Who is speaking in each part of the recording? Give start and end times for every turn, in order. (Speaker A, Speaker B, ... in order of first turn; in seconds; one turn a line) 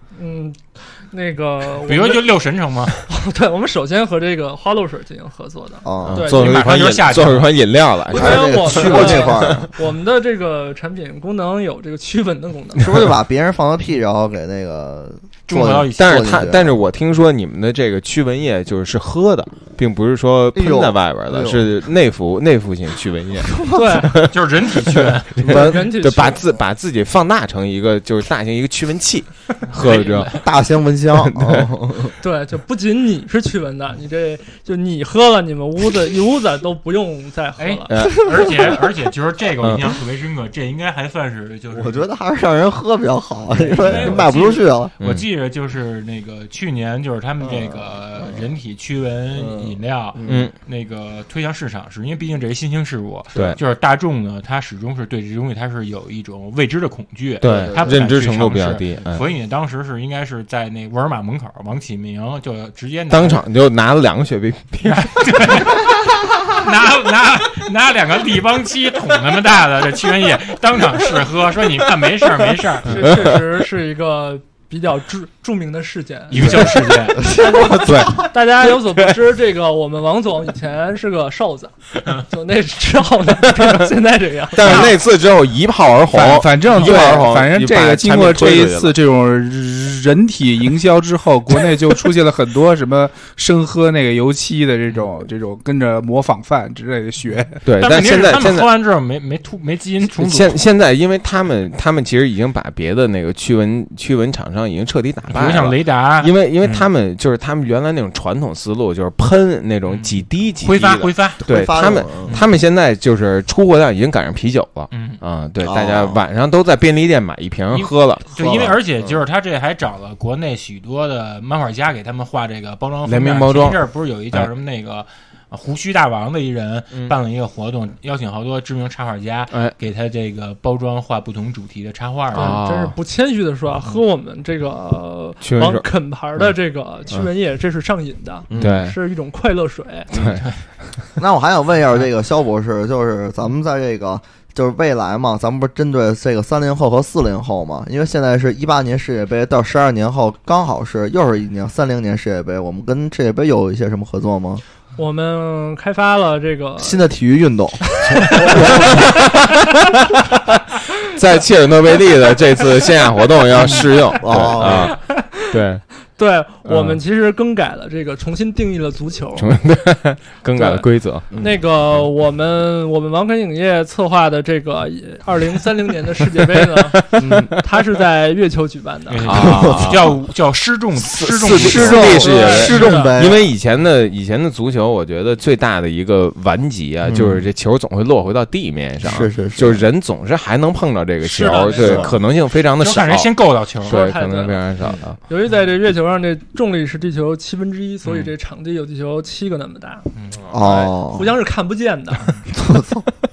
Speaker A: 0.1-2.3
Speaker B: 1.8-3.1
Speaker A: 3.1-6.6
Speaker C: 5.8-6.3
Speaker D: 6.0-9.5
Speaker B: 6.3-7.5
Speaker C: 8.1-9.7
Speaker A: 8.1-12.9
Speaker C: 12.8-16.8
Speaker B: 15.5-16.3
Speaker D: 15.6-23.6
Speaker C: 20.5-21.7
Speaker A: 23.7-24.1
Speaker B: 24.3-25.4
Speaker D: 24.8-30.3
Speaker A: 25.4-26.4
Speaker B: 29.7-30.5
Speaker C: 30.4-32.1
Speaker D: 31.3-31.7
Speaker A: 32.2-37.9
Speaker B: 37.6-42.1
Speaker D: 37.9-38.5
Speaker D: 39.6-40.0
Speaker C: 41.7-44.9
Speaker B: 43.5-63.4
Speaker D: 43.9-44.2
Speaker C: 47.4-48.4
Speaker C: 49.3-50.5
Speaker D: 50.3-50.5
Speaker D: 57.4-59.3
Speaker C: 57.4-58.0
Speaker D: 63.1-65.6
Speaker B: 64.8-73.2
Speaker A: 72.8-84.9
Speaker D: 72.9-73.3
Speaker B: 76.3-77.3
Speaker D: 76.3-76.7
Speaker C: 77.2-78.0
Speaker D: 77.5-78.2
Speaker E: 77.8-78.2
Speaker D: 83.6-83.9
Speaker D: 84.5-89.0
Speaker B: 84.6-85.0
Speaker E: 86.1-97.6
Speaker D: 97.7-98.7
Speaker B: 97.8-100.6
Speaker D: 100.2-119.1
Speaker B: 105.3-106.8
Speaker B: 109.9-111.5
Speaker C: 111.4-112.4
Speaker B: 112.2-112.5
Speaker B: 114.9-115.2
Speaker C: 115.6-116.2
Speaker B: 117.7-132.6
Speaker D: 123.0-123.8
Speaker D: 132.3-132.9
Speaker A: 132.3-140.1
Speaker D: 135.4-135.9
Speaker C: 138.5-138.8
Speaker D: 138.6-139.0
Speaker D: 140.1-140.9
Speaker B: 140.2-140.7
Speaker C: 141.2-154.6
Speaker A: 155.0-157.1
Speaker C: 156.8-159.0
Speaker A: 158.3-158.6
Speaker D: 158.6-159.7
Speaker D: 161.1-165.9
Speaker C: 164.2-164.9
Speaker A: 164.9-165.4
Speaker A: 166.2-169.5
Speaker D: 166.7-167.0
Speaker D: 169.4-171.3
Speaker A: 170.5-179.6
Speaker C: 171.3-171.6
Speaker D: 176.8-177.6
Speaker B: 179.1-183.0
Speaker D: 179.2-180.2
Speaker D: 181.0-195.2
Speaker C: 181.4-183.5
Speaker A: 182.1-183.2
Speaker C: 187.1-187.4
Speaker C: 189.0-189.8
Speaker A: 191.2-192.1
Speaker C: 191.8-192.1
Speaker B: 192.8-194.1
Speaker A: 193.8-194.7
Speaker A: 195.3-200.1
Speaker B: 200.2-200.4
Speaker C: 200.5-201.3
Speaker A: 200.6-202.3
Speaker C: 202.5-203.1